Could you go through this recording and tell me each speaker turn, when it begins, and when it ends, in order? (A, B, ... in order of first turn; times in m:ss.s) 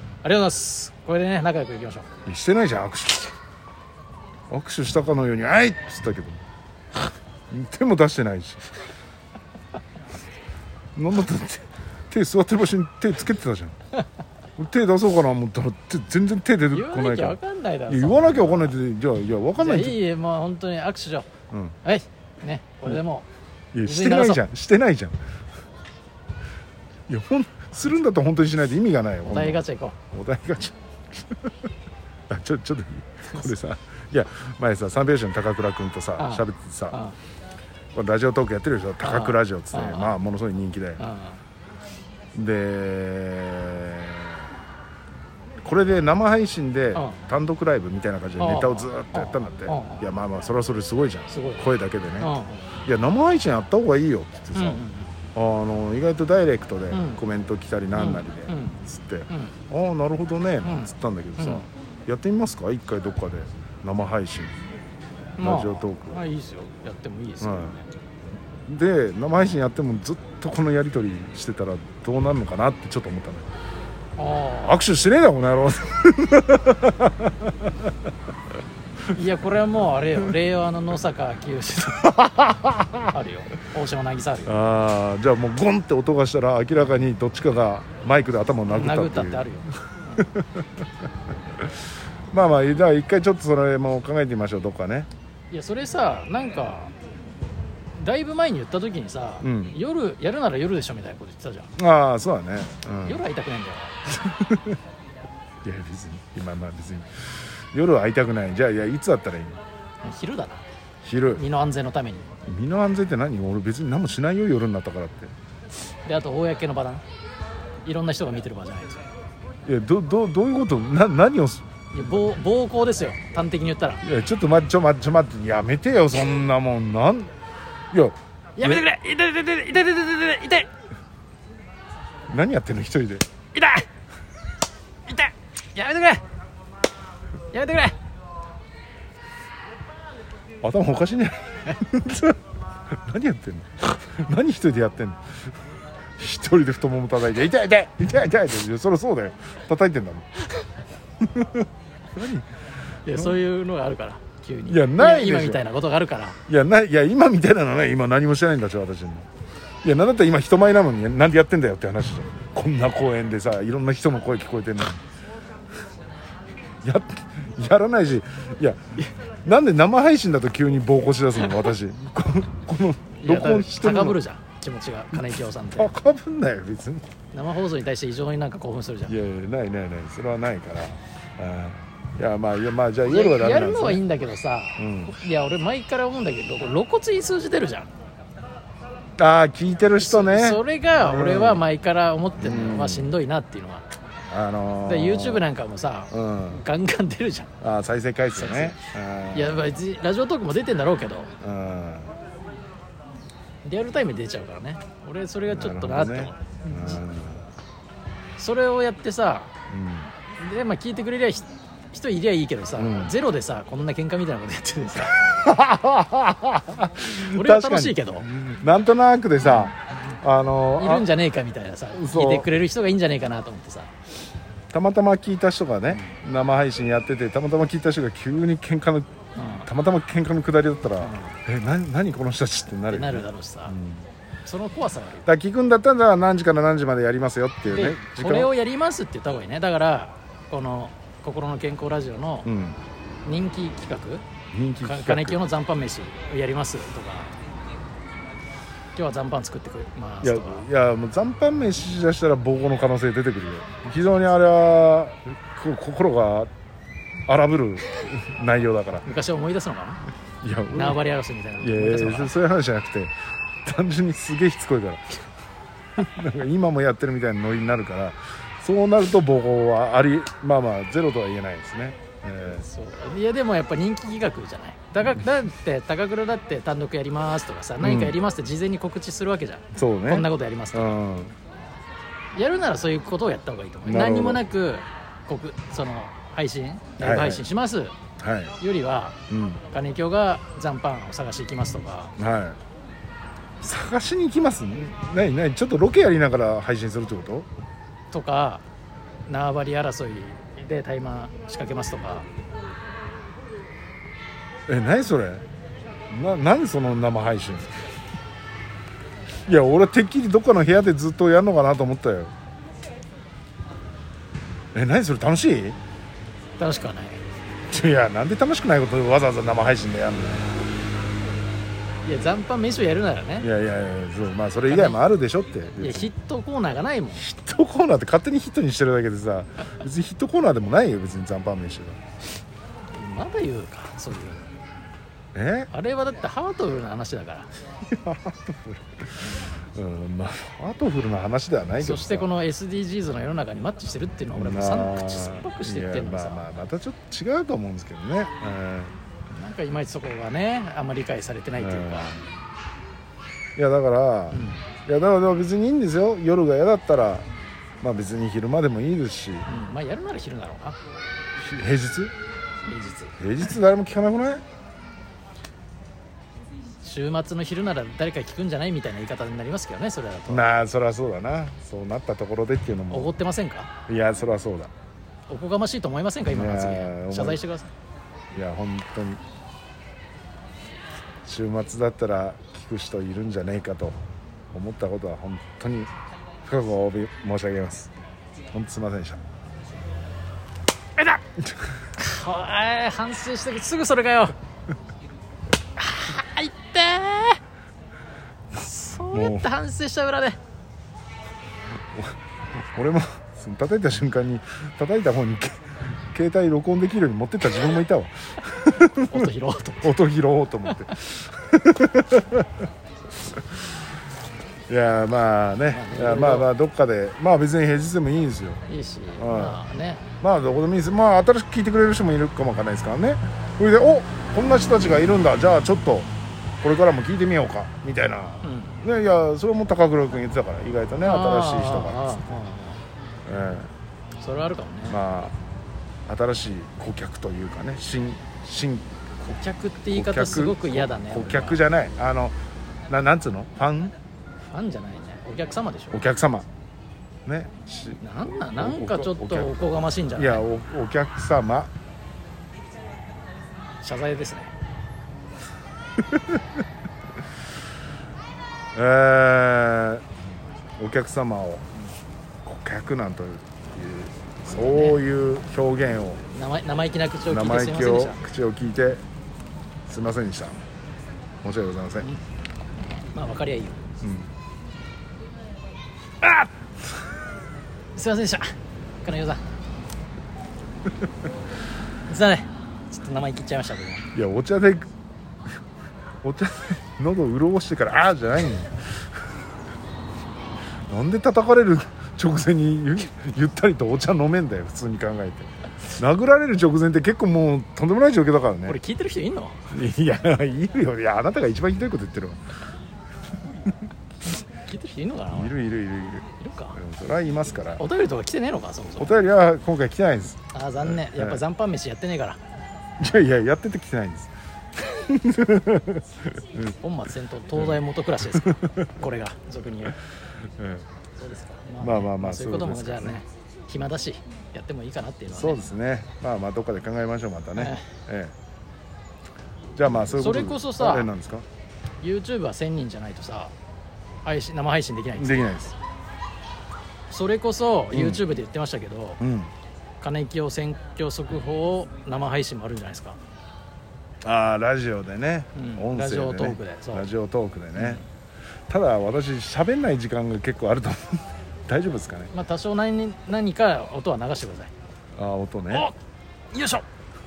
0:00.2-0:02.1 A
0:02.3-0:03.3 B
0:04.5-0:06.4 B
0:07.5-0:08.7 B
0:10.9-0:13.8 B
0:14.6-0:20.0 B
0:16.7-0:18.8 A
0:19.6-0:21.3 A
0:21.8-0:23.3 A
0:23.7-0:25.2 B
0:23.8-0:24.4 A
0:27.1-0:30.8 B
0:29.3-0:30.0 A
0:32.3-0:37.0 B
0:36.2-0:37.2 A
0:37.9-0:41.0 B
0:39.0-0:40.2 A
0:41.0-0:41.4 A
0:42.3-0:44.5 B
0:45.6-0:52.3 B
0:46.9-0:47.2 A
0:48.4-0:50.0 A
0:51.3-0:51.6 A
0:52.2-0:52.6 A
0:52.8-0:54.8 B
0:54.5-0:55.1 A
0:55.4-1:04.5 B
0:56.9-0:57.2 A
0:58.0-0:59.5 A
1:00.6-1:01.7 A
1:05.4-1:07.8 A
1:05.4-1:06.2 B
1:07.4-1:07.8 B
1:08.7-1:13.5 B
1:14.2-1:14.8 A
1:14.6-1:17.9 B
1:19.1-1:22.4 A
1:22.5-1:22.9 B
1:23.1-1:24.6 A
1:24.4-1:29.5 B
1:28.7-1:30.3 A
1:30.2-1:30.6 B
1:32.3-1:35.1 B
1:35.5-1:36.9 A
1:38.0-1:41.7 A
1:39.4-1:39.8 B
1:41.8-1:43.2 B
1:43.0-1:44.0 A
1:44.1-1:44.8 B
1:45.6-1:49.6 B
1:50.0-1:50.6 A
1:51.0-1:51.4 B
1:51.4-1:52.3 A
1:52.4-1:55.3 B
1:56.0-1:57.0 A
1:57.8-1:59.0 A
1:59.7-2:01.7 B
2:01.9-2:04.0 A
2:04.0-2:07.3 B
2:07.9-2:08.8 B
2:08.6-2:10.7 A
2:12.3-2:13.2 B
2:13.5-2:13.8 A
2:15.1-2:16.2 A
2:17.5-2:18.0 A
2:20.6-2:25.4 B
2:26.2-2:30.3 B
2:31.2-2:32.4 B
2:33.1-2:36.4 A
2:33.1-2:33.4 B
2:34.7-2:35.6 B
2:36.4-2:39.3 B
2:39.8-2:45.0 B
2:46.8-2:54.2 B
2:53.2-2:55.9 A
2:55.8-2:57.1 B
2:57.3-2:59.1 A
2:59.1-3:04.0 B
3:03.0-3:07.9 A
3:04.8-3:05.2 B
3:09.2-3:11.6 B
3:10.0-3:13.8 A
3:12.4-3:13.1 B
3:14.3-3:15.4 B
3:14.8-3:17.5 A
3:16.1-3:16.6 B
3:17.6-3:19.7 B
3:18.4-3:18.8 A
3:19.3-3:21.3 A
3:21.4-3:22.2 B
3:23.6-3:27.0 A
3:25.5-3:27.5 B
3:28.4-3:29.5 A
3:29.7-3:30.1 B
3:30.4-3:35.3 A
3:32.8-3:33.2 B
3:35.2-3:41.1 B
3:37.3-3:38.3 A
3:39.4-3:39.7 A
3:40.8-3:43.9 A
3:41.9-3:42.5 B
3:44.7-3:49.1 B
3:45.9-3:46.2 A
3:49.3-3:49.7 A
3:49.6-3:54.1 B
3:51.0-3:51.4 A
3:52.9-3:53.8 A
3:54.4-3:55.3 A
3:55.2-3:58.5 B
3:57.7-4:02.5 A
4:02.4-4:02.8 B
4:03.2-4:04.2 A
4:04.5-4:05.4 B
4:04.8-4:07.3 A
4:09.0-4:10.7 A
4:10.2-4:16.5 B
4:17.3-4:19.1 B
4:19.0-4:20.0 A
4:20.4-4:21.0 B
4:20.7-4:22.4 A
4:21.6-4:23.1 B
4:23.6-4:25.2 B
4:26.0-4:32.6 B
4:32.5-4:41.0 A
4:37.8-4:38.2 B
4:39.7-4:41.3 B
4:42.4-4:48.0 A
4:43.8-4:44.4 B
4:47.0-4:47.5 B
4:48.2-4:48.6 B
4:48.6-4:49.2 A
4:49.3-4:49.6 B
4:49.7-4:52.1 A
4:52.2-4:52.6 B
4:53.6-4:57.5 B
4:58.1-4:58.6 A
4:59.3-5:02.3 A
5:04.7-5:05.4 B
5:06.1-5:07.9 B
5:09.5-5:12.3 B
5:14.7-5:15.8 B
5:16.6-5:17.2 A
5:17.7-5:20.6 B
5:22.0-5:23.5 A
5:23.4-5:26.1 B
5:24.7-5:25.0 A
5:25.8-5:27.2 A
5:27.2-5:32.0 B
5:32.9-5:34.5 A
5:35.4-5:35.7 B
5:35.7-5:37.5 A
5:37.9-5:39.1 B
5:39.2-5:39.6 A
5:39.7-5:42.3 B
5:41.8-5:46.5 A
5:44.3-5:49.0 B
5:49.3-5:52.2 A
5:51.6-5:52.3 B
5:53.6-5:57.2 B
5:54.3-5:54.7 A
5:57.8-5:59.5 B
5:59.5-6:00.8 A
6:01.4-6:02.1 B
6:02.7-6:03.2 A
6:03.2-6:04.4 B
6:06.8-6:10.5 A
6:10.3-6:13.1 B
6:12.9-6:13.7 A
6:13.9-6:14.7 B
6:15.3-6:17.7 A
6:16.2-6:17.4 B
6:18.3-6:19.2 B
6:21.2-6:24.0 B
6:24.5-6:25.9 B
6:26.4-6:27.9 B
6:28.5-6:29.2 B
6:32.0-6:34.4 A
6:35.8-6:37.4 A
6:38.5-6:40.4 A
6:39.1-6:39.5 B
6:42.7-6:49.2 B
6:49.0-6:49.9 A
6:49.8-6:52.5 B
6:54.7-6:58.6 B
6:55.7-6:56.5 A
6:58.7-7:00.1 A
6:59.2-6:59.6 B
7:00.2-7:06.1 B
7:06.6-7:12.2 B
7:08.4-7:08.8 A
7:11.0-7:12.8 A
7:13.2-7:13.7 B
7:14.2-7:15.0 A
7:14.9-7:15.4 B
7:16.1-7:18.8 B
7:19.2-7:21.6 A
7:19.9-7:22.4 B
7:22.9-7:24.0 B
7:24.5-7:26.1 A
7:25.9-7:26.5 B
7:27.2-7:28.0 B
7:28.0-7:30.4 A
7:28.6-7:31.7 B
7:33.8-7:34.5 A
7:38.8-7:40.1 B
7:40.8-7:41.6 B
7:42.4-7:46.2 B
7:44.5-7:45.0 A
7:46.3-7:48.2 A
7:47.2-7:49.0 B
7:49.9-7:50.6 B
7:51.4-7:52.1 B
7:53.1-7:53.8 A
7:54.0-7:54.3 B
7:58.0-7:58.5 A
7:59.0-7:59.4 A
8:02.1-8:04.1 A
8:04.1-8:04.9 B
8:06.2-8:09.0 B
8:10.9-8:18.8 B
8:18.6-8:19.7 A
8:19.7-8:22.4 B
8:24.6-8:25.6 A
8:25.3-8:27.8 B
8:26.4-8:26.8 A
8:27.8-8:29.2 A
8:29.0-8:31.4 B
8:30.5-8:32.4 A
8:33.0-8:36.8 B
8:36.8-8:40.0 A
8:38.4-8:38.9 B
8:40.6-8:40.8 B
8:41.2-8:45.6 A
8:41.8-8:43.2 B
8:45.3-8:48.4 B
8:47.6-8:47.9 A
8:49.8-8:51.4 B
8:50.0-8:51.1 A
8:52.0-8:53.5 A
8:54.2-8:55.7 A
8:55.2-8:55.8 B
8:57.1-8:59.2 A
8:57.9-8:58.2 B
8:59.2-8:59.5 B
9:00.0-9:03.2 A
9:04.2-9:08.0 B
9:05.6-9:07.1 A
9:07.8-9:08.0 A
9:08.7-9:12.3 B
9:12.3-9:14.7 A
9:15.1-9:15.9 B
9:15.7-9:16.0 A
9:16.5-9:16.9 A